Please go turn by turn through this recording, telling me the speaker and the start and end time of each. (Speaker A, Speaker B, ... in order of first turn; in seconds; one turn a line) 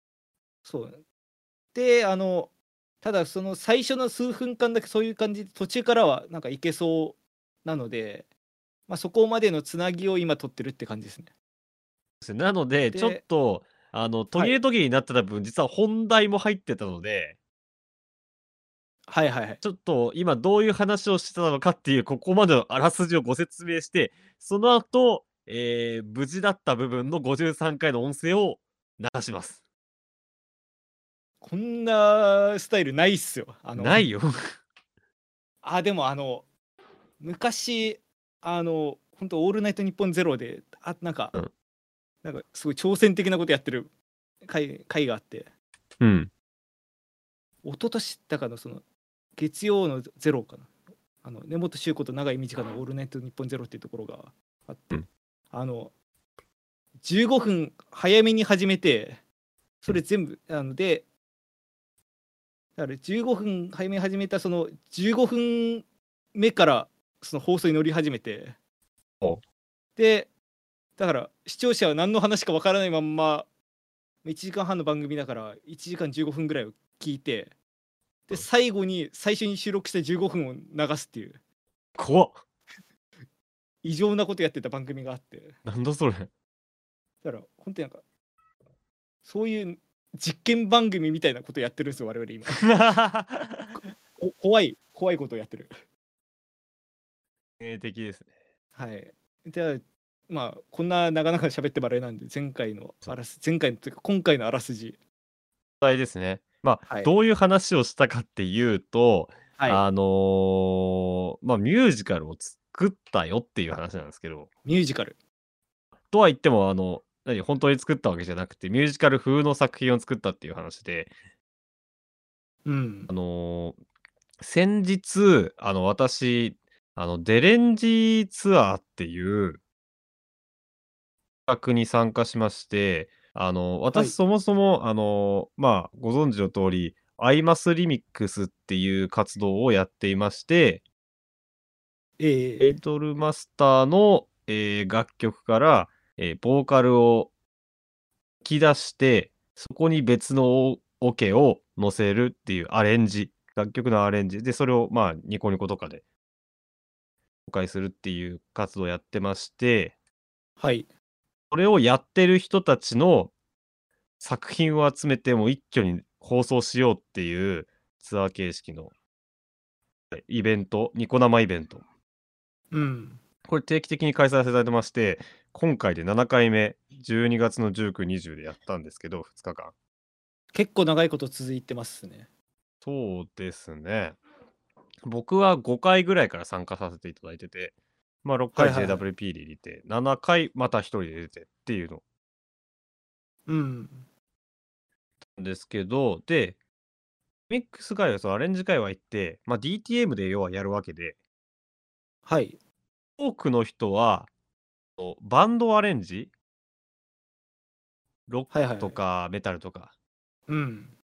Speaker A: 0.7-1.0
Speaker A: 1.7-8.3
Speaker A: 8.9-11.3
Speaker B: 12.2-17.4
Speaker A: 12.9-13.2
Speaker A: 19.1-19.6
Speaker B: 19.6-29.6
Speaker A: 31.4-34.1
Speaker B: 33.8-34.6
Speaker A: 35.6-36.5
Speaker A: 37.2-41.4
Speaker A: 42.2-43.9
Speaker A: 44.4-45.5
Speaker B: 46.0-46.3
Speaker A: 47.6-48.8
Speaker A: 49.4-55.9
Speaker A: 57.0-59.2
Speaker A: 59.8-61.1
Speaker A: 62.8-68.6
Speaker A: 70.0-70.3
Speaker A: 71.0-73.5
Speaker A: 74.2-77.5
Speaker A: 78.3-81.4
Speaker B: 82.0-82.4
Speaker A: 83.8-85.6
Speaker B: 85.7-86.3
Speaker A: 87.2-88.0
Speaker A: 89.2-92.7
Speaker B: 92.6-93.8
Speaker A: 93.8-95.7
Speaker B: 97.6-98.3
Speaker A: 98.8-105.0
Speaker B: 105.8-114.5
Speaker A: 114.7-115.2
Speaker B: 116.1-121.1
Speaker A: 122.7-123.1
Speaker B: 123.1-123.8
Speaker B: 124.4-129.6
Speaker B: 131.5-140.8
Speaker A: 142.2-142.7
Speaker B: 142.6-147.3
Speaker B: 148.4-156.0
Speaker B: 157.5-159.9
Speaker A: 160.6-160.9
Speaker B: 161.5-163.3
Speaker B: 164.2-168.9
Speaker B: 170.1-171.8
Speaker A: 172.7-173.2
Speaker B: 173.5-179.7
Speaker A: 180.5-182.3
Speaker B: 182.8-184.2
Speaker B: 185.1-192.0
Speaker A: 188.6-189.0
Speaker A: 193.5-194.1
Speaker B: 195.3-196.6
Speaker B: 197.5-201.2
Speaker A: 202.3-202.6
Speaker B: 203.2-204.3
Speaker B: 205.0-206.3
Speaker B: 208.3-209.9
Speaker A: 208.5-209.0
Speaker A: 210.5-210.9